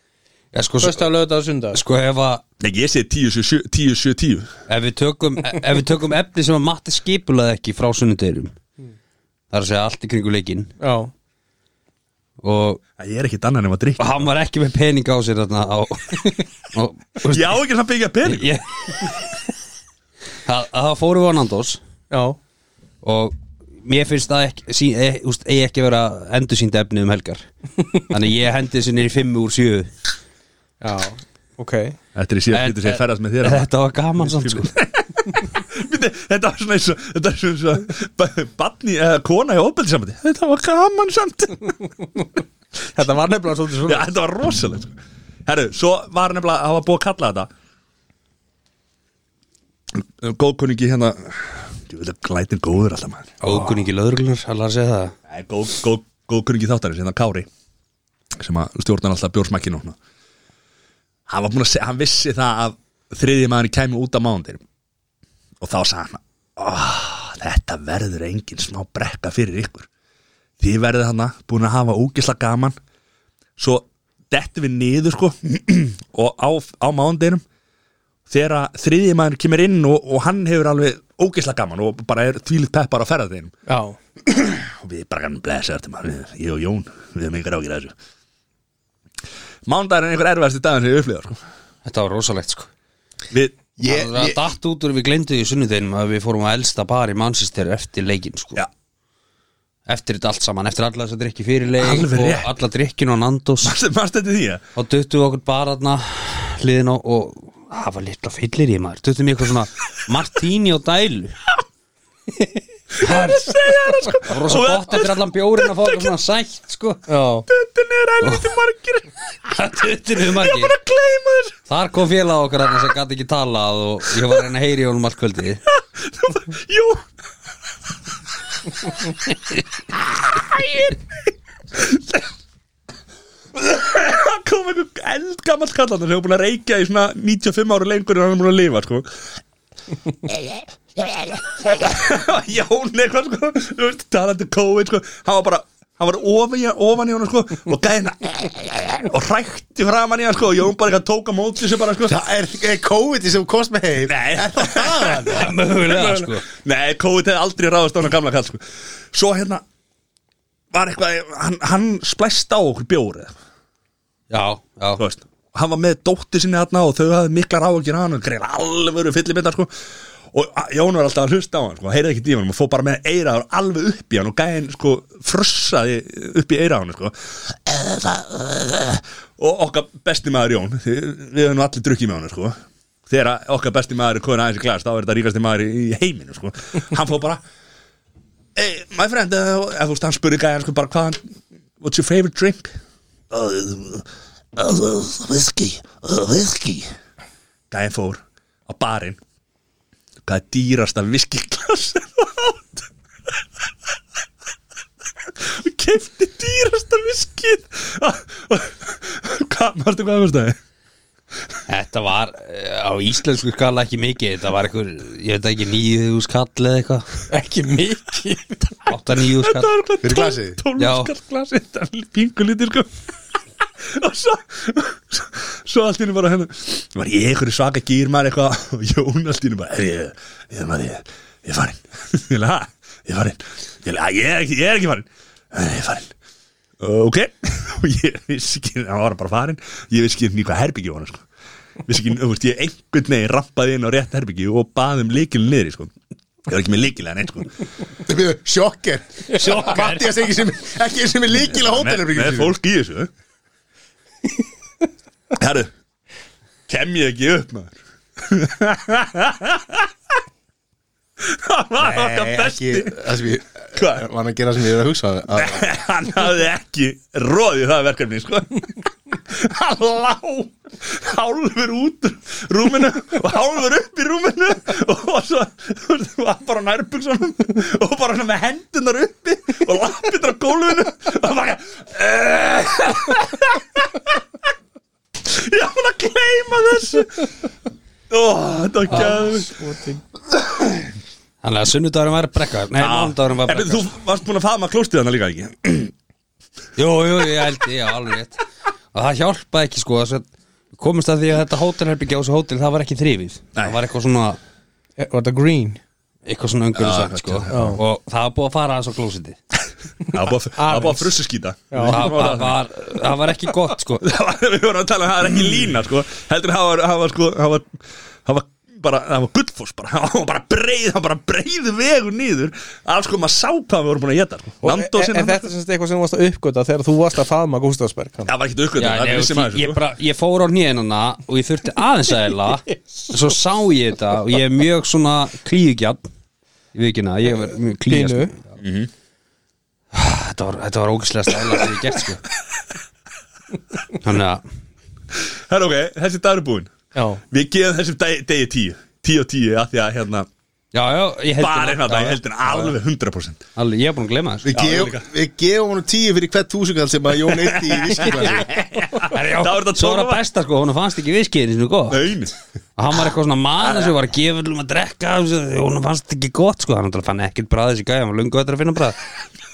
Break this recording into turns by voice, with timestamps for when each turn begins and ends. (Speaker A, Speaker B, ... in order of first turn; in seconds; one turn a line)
Speaker A: 0.5-1.1
Speaker B: 0.8-1.8
Speaker A: 1.7-2.4
Speaker C: 2.6-4.5
Speaker A: 4.7-8.5
Speaker A: 9.5-10.7
Speaker B: 10.8-11.1
Speaker A: 12.4-12.8
Speaker C: 13.0-14.3
Speaker A: 14.0-17.6
Speaker C: 17.3-18.5
Speaker A: 18.2-19.2
Speaker A: 20.4-21.8
Speaker B: 22.1-22.4
Speaker A: 23.0-27.4
Speaker A: 28.1-29.9
Speaker B: 30.8-32.0
Speaker C: 32.1-41.8
Speaker A: 32.5-34.7
Speaker B: 42.9-44.1
Speaker C: 43.8-44.9
Speaker C: 45.5-47.5
Speaker C: 49.9-53.4
Speaker A: 53.4-55.1
Speaker C: 55.3-57.5
Speaker C: 58.4-60.0
Speaker C: 61.3-64.6
Speaker C: 65.6-69.9
Speaker C: 70.6-72.8
Speaker C: 73.6-77.4
Speaker C: 78.3-83.5
Speaker B: 83.7-84.0
Speaker C: 84.3-87.9
Speaker C: 89.7-91.4
Speaker A: 91.8-92.7
Speaker C: 93.3-93.7
Speaker D: 93.8-94.4
Speaker A: 93.8-98.6
Speaker A: 99.9-103.7
Speaker C: 101.8-102.5
Speaker C: 103.6-104.6
Speaker A: 104.7-111.4
Speaker C: 113.0-116.1
Speaker B: 113.0-113.5
Speaker A: 113.0-113.3
Speaker A: 114.2-117.0
Speaker B: 117.1-117.5
Speaker C: 117.5-119.1
Speaker A: 118.2-118.5
Speaker A: 119.5-120.7
Speaker C: 120.2-121.5
Speaker A: 121.7-125.6
Speaker C: 125.8-127.0
Speaker C: 130.1-131.1
Speaker C: 131.7-132.3
Speaker C: 133.6-139.1
Speaker C: 140.3-152.2
Speaker D: 152.1-155.5
Speaker C: 154.1-159.6
Speaker A: 155.2-156.4
Speaker C: 160.7-163.3
Speaker A: 164.3-165.0
Speaker C: 165.0-169.7
Speaker C: 170.3-182.6
Speaker C: 183.1-187.4
Speaker C: 188.6-191.2
Speaker C: 191.8-192.7
Speaker C: 193.3-196.9
Speaker C: 197.7-199.2
Speaker C: 200.2-202.9
Speaker C: 205.4-210.6
Speaker A: 211.7-217.1
Speaker B: 217.3-218.8
Speaker A: 218.9-219.7
Speaker C: 219.3-222.9
Speaker D: 220.0-220.6
Speaker A: 220.8-221.1
Speaker C: 223.8-236.1
Speaker C: 236.8-241.2
Speaker C: 241.9-245.9
Speaker C: 246.5-247.5
Speaker D: 248.1-252.6
Speaker A: 249.3-250.1
Speaker C: 251.5-253.1
Speaker C: 255.3-255.7
Speaker C: 256.7-259.9
Speaker C: 261.2-263.2
Speaker D: 261.8-265.7
Speaker C: 263.8-264.1
Speaker C: 265.4-284.2
Speaker C: 285.2-287.3
Speaker C: 288.1-289.6
Speaker B: 288.9-290.0
Speaker C: 290.6-290.9
Speaker A: 291.4-293.9
Speaker C: 292.8-295.9
Speaker A: 296.8-304.4
Speaker B: 305.0-305.8
Speaker A: 306.3-309.4
Speaker C: 306.7-307.8
Speaker B: 307.5-307.8
Speaker C: 310.0-312.6
Speaker B: 310.6-311.1
Speaker B: 311.7-312.1
Speaker A: 311.8-314.0
Speaker C: 314.0-325.5
Speaker B: 324.6-328.3
Speaker C: 328.3-329.8
Speaker A: 328.8-336.1
Speaker A: 336.7-338.4
Speaker B: 337.9-338.3
Speaker C: 338.6-338.9
Speaker A: 339.9-342.2
Speaker A: 344.0-344.4
Speaker C: 345.2-346.7
Speaker B: 346.9-347.2
Speaker C: 347.3-350.3
Speaker A: 350.7-352.7
Speaker C: 351.4-353.4
Speaker A: 353.6-354.8
Speaker D: 354.4-358.5
Speaker C: 354.6-355.0
Speaker C: 357.3-360.2
Speaker A: 359.0-362.1
Speaker C: 361.9-362.3
Speaker A: 362.8-369.0